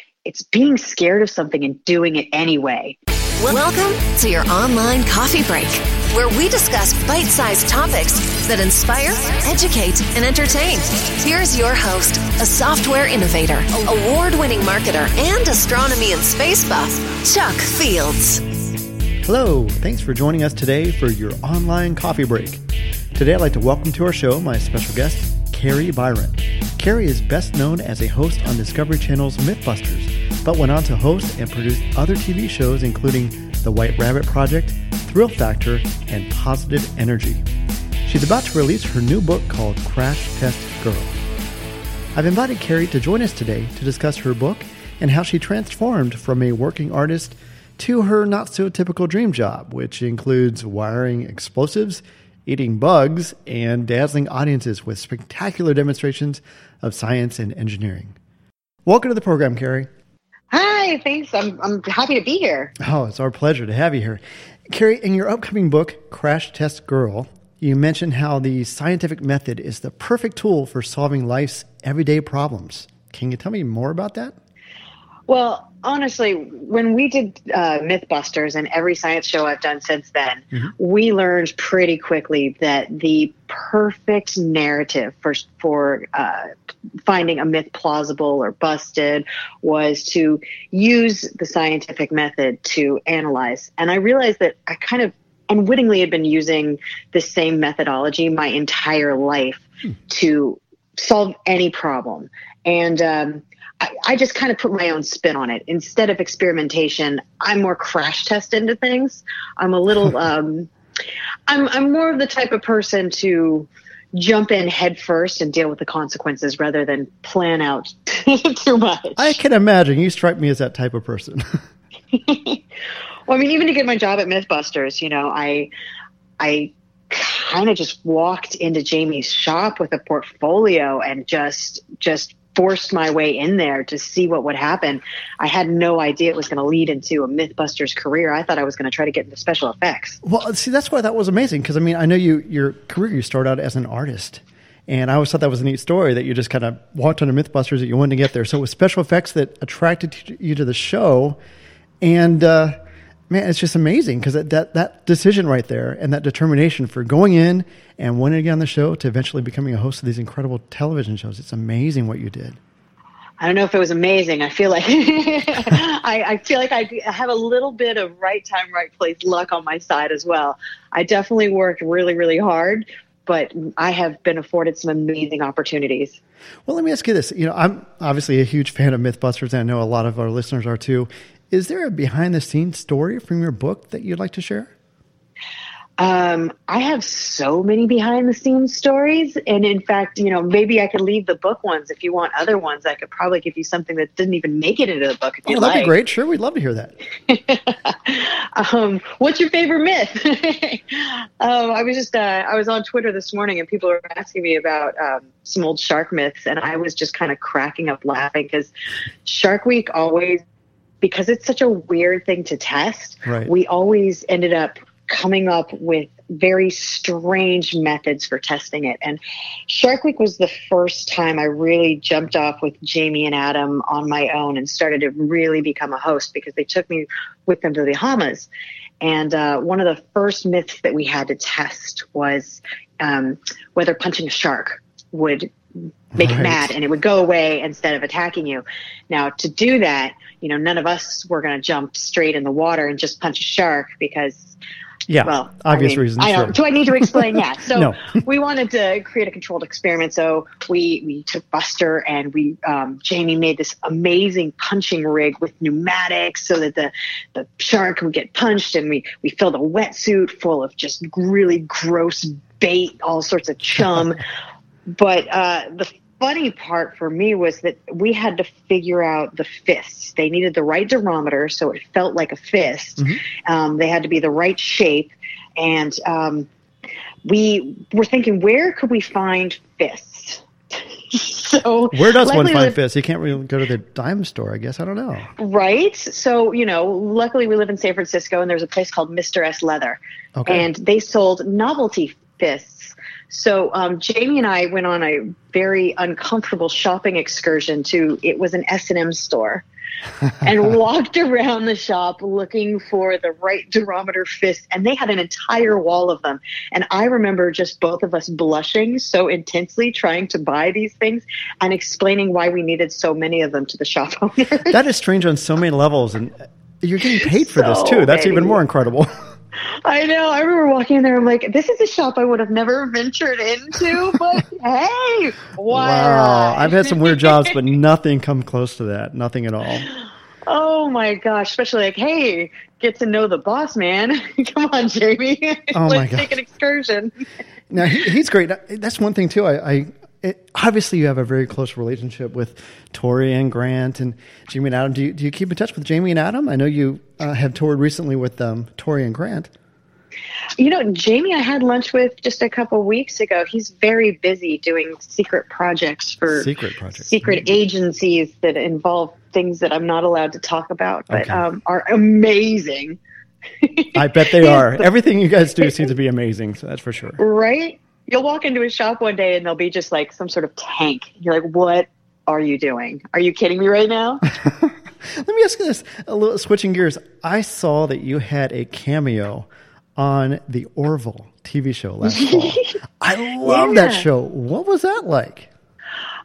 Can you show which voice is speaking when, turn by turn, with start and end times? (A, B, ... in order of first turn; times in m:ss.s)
0:00.2-0:03.0 A
0:03.4-0:18.4 B
0:19.2-0:22.6 C
0:23.1-0:37.4 C
0:38.0-0:41.2 C
0:42.1-0:58.2 C
0:58.8-0:59.9 C
1:00.5-1:02.7 A
1:02.8-1:14.3 C
1:15.3-1:26.5 A
1:27.0-1:50.7 A
1:51.5-1:59.4 A
1:59.2-2:01.4 C
2:02.1-2:02.6 A
2:03.3-2:05.7 A
2:06.4-2:20.2 A
2:20.2-2:31.4 C
2:32.0-2:32.8 C
2:33.3-2:42.6 C
2:43.4-2:56.2 A
2:56.6-3:04.7 C
3:06.0-3:15.9 A
3:15.5-3:16.9 C
3:17.3-3:28.7 A
3:29.2-3:30.4 A
3:31.0-3:48.5 A
3:33.2-3:33.5 C
3:49.0-3:55.5 A
3:56.1-3:56.7 C
3:56.1-4:04.6 A
4:05.1-4:08.2 C
4:05.2-4:24.2 A
4:24.9-4:36.5 A
4:37.2-4:40.4 A
4:41.1-4:42.8 A
4:41.9-4:45.3 C
4:45.4-4:59.6 A
4:50.4-4:50.7 C
5:00.4-5:14.8 A
5:14.7-5:19.1 C
5:17.2-5:18.6 A
5:19.8-5:27.5 A
5:25.7-5:29.9 C
5:30.5-5:37.1 A
5:35.7-5:36.4 C
5:37.7-5:49.5 C
5:50.6-6:03.0 A
5:56.3-5:57.6 C
6:01.1-6:01.4 C
6:03.6-6:04.9 A
6:03.9-6:07.2 C
6:07.2-6:14.2 A
6:14.4-6:25.5 C
6:22.0-6:22.7 A
6:23.4-6:24.1 A